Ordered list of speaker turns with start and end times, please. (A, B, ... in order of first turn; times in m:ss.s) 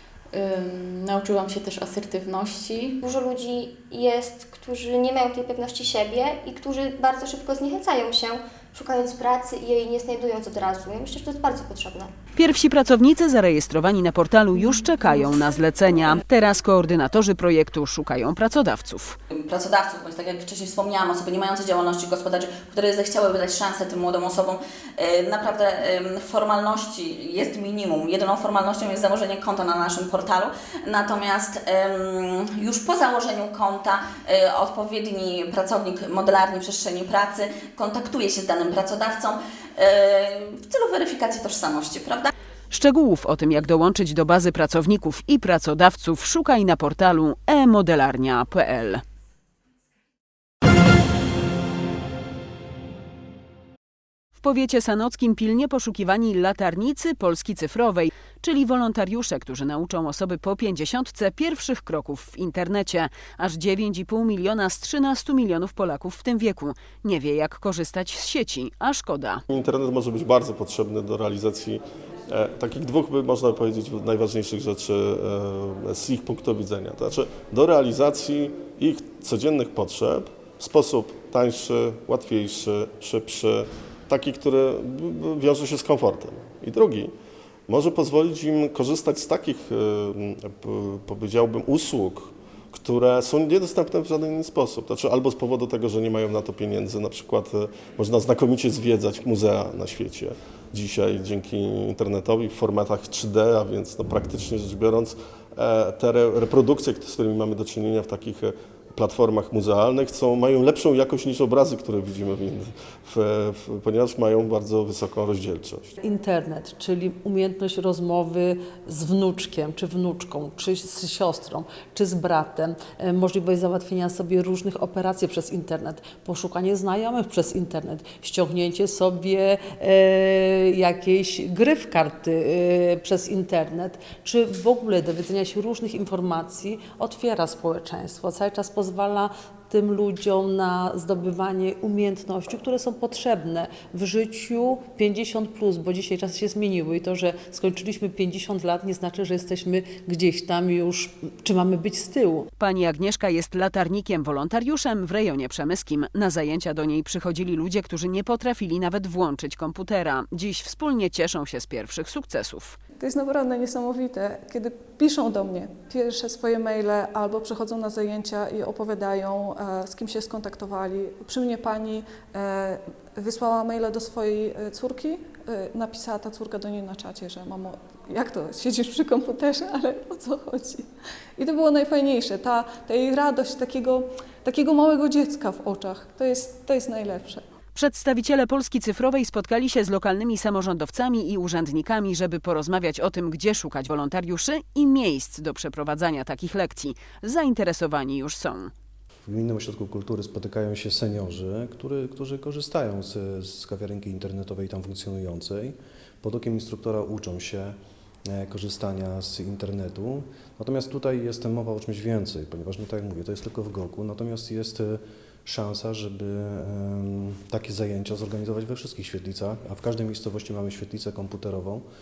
0:00.3-0:03.0 A
0:03.0-0:12.1 B
0:12.4-0:19.2 C
0:19.4-0:42.3 D
0:42.7-0:49.0 C
0:54.4-1:09.4 C
1:09.5-1:27.1 E
1:27.7-1:55.9 E
1:56.0-2:32.5 F
2:32.6-2:42.8 C
2:43.0-3:07.4 G
3:07.8-3:18.7 C
3:19.2-3:41.8 H